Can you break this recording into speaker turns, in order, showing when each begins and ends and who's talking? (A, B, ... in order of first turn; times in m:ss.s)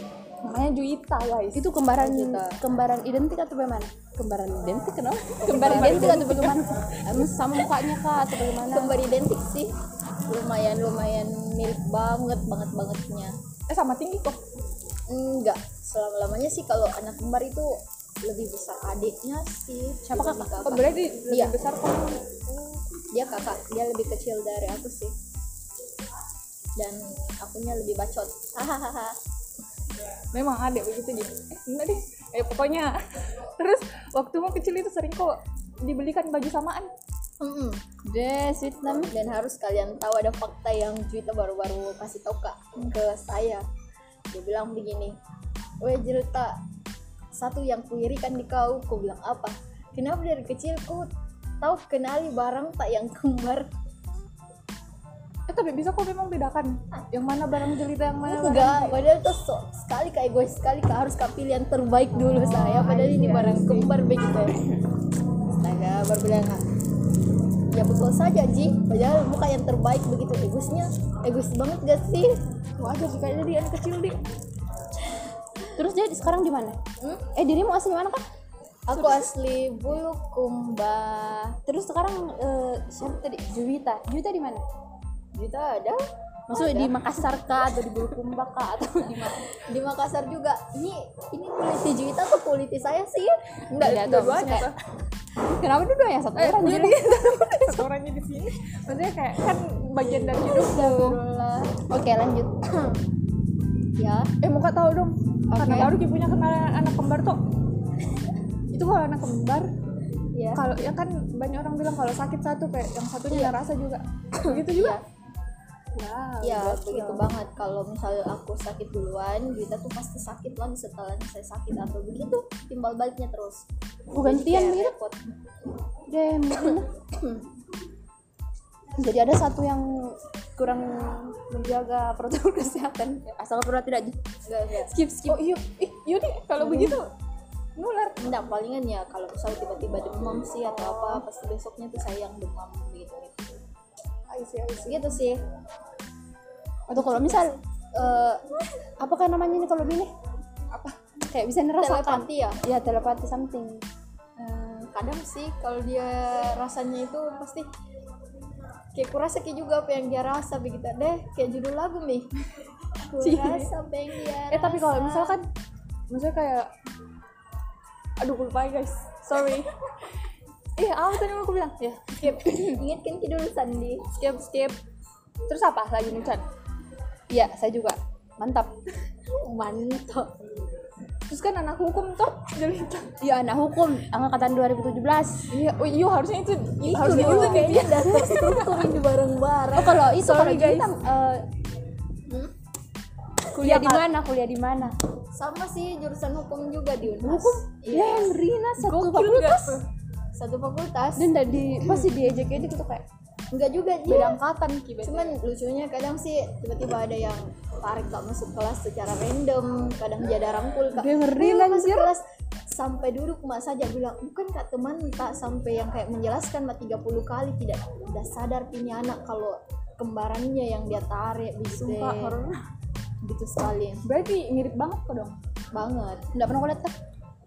0:00.4-0:01.6 A
0:01.5-0:09.0 B
0:02.0-0:02.6 C
0:05.4-0:06.2 C
0:05.4-0:06.8 A
0:08.7-0:09.7 C
0:10.3-0:13.4 C
0:13.7-0:14.4 A
0:15.1-0:21.6 C
0:20.1-0:20.5 B
0:20.3-0:22.8 A
0:23.1-0:25.2 C
0:26.8-0:29.2 C
0:30.3-0:33.0 A
0:33.6-0:36.9 A
0:37.4-0:37.9 C
0:38.0-0:39.1 B
0:39.1-0:43.6 C
0:44.3-0:45.2 C
0:45.8-0:46.6 C
0:47.3-0:51.1 C
0:51.6-0:53.7 C
0:55.5-0:59.0 A
0:58.2-1:04.7 C
1:02.3-1:03.9 B
1:05.5-1:06.6 C
1:07.7-1:12.4 C
1:12.8-1:14.2 A
1:15.8-1:16.8 B
1:17.3-1:18.2 B
1:18.9-1:21.6 C
1:21.7-1:24.6 B
1:25.4-1:26.9 C
1:26.5-1:29.5 B
1:29.5-1:34.6 C
1:33.7-1:34.8 A
1:33.8-1:34.7 B
1:35.4-1:37.9 B
1:36.4-1:41.2 A
1:40.4-1:41.9 C
1:41.9-1:42.8 B
1:44.0-1:44.3 C
1:44.4-1:47.4 A
1:45.5-1:45.9 C
1:48.7-1:49.7 A
1:50.4-1:50.6 C
1:50.6-1:55.0 A
1:53.3-1:53.6 C
1:54.4-1:55.0 C
1:55.9-1:57.2 A
1:56.4-2:03.7 C
2:04.1-2:04.9 B
2:04.2-2:05.3 C
2:06.1-2:06.9 B
2:09.0-2:14.2 B
2:14.4-2:14.9 C
2:14.7-2:15.4 B
2:15.3-2:17.1 A
2:16.6-2:17.0 B
2:17.8-2:18.2 A
2:18.2-2:23.6 C
2:20.7-2:21.2 A
2:24.3-2:25.1 A
2:24.9-2:25.4 C
2:26.9-2:27.6 B
2:26.9-2:28.6 C
2:29.0-2:30.1 B
2:31.3-2:33.8 B
2:31.8-2:32.6 C
2:34.4-2:37.7 C
2:38.9-2:42.3 C
2:43.1-2:45.4 C
2:43.2-2:43.6 A
2:44.5-2:45.4 A
2:46.1-2:46.7 A
2:48.2-2:49.7 A
2:50.8-2:52.7 A
2:52.2-2:54.0 C
2:54.1-2:54.8 A
2:55.5-2:56.4 A
2:57.3-2:58.7 B
2:59.2-3:00.3 C
3:01.3-3:03.1 A
3:03.2-3:05.5 B
3:05.5-3:08.9 A
3:06.9-3:09.0 B
3:06.9-3:10.4 C
3:09.7-3:11.4 B
3:09.9-3:10.9 A
3:13.5-3:15.0 B
3:13.6-3:14.0 A
3:15.3-3:18.4 C
3:17.2-3:19.8 B
3:18.8-3:19.8 A
3:20.4-3:22.1 C
3:21.2-3:23.0 B
3:23.5-3:24.4 C
3:24.1-3:25.4 A
3:25.0-3:42.4 C
3:31.0-3:32.1 B
3:31.1-3:31.9 A
3:41.9-3:42.6 B
3:43.2-3:44.0 C
3:44.0-3:45.4 A
3:45.7-3:46.3 C
3:46.3-3:47.0 B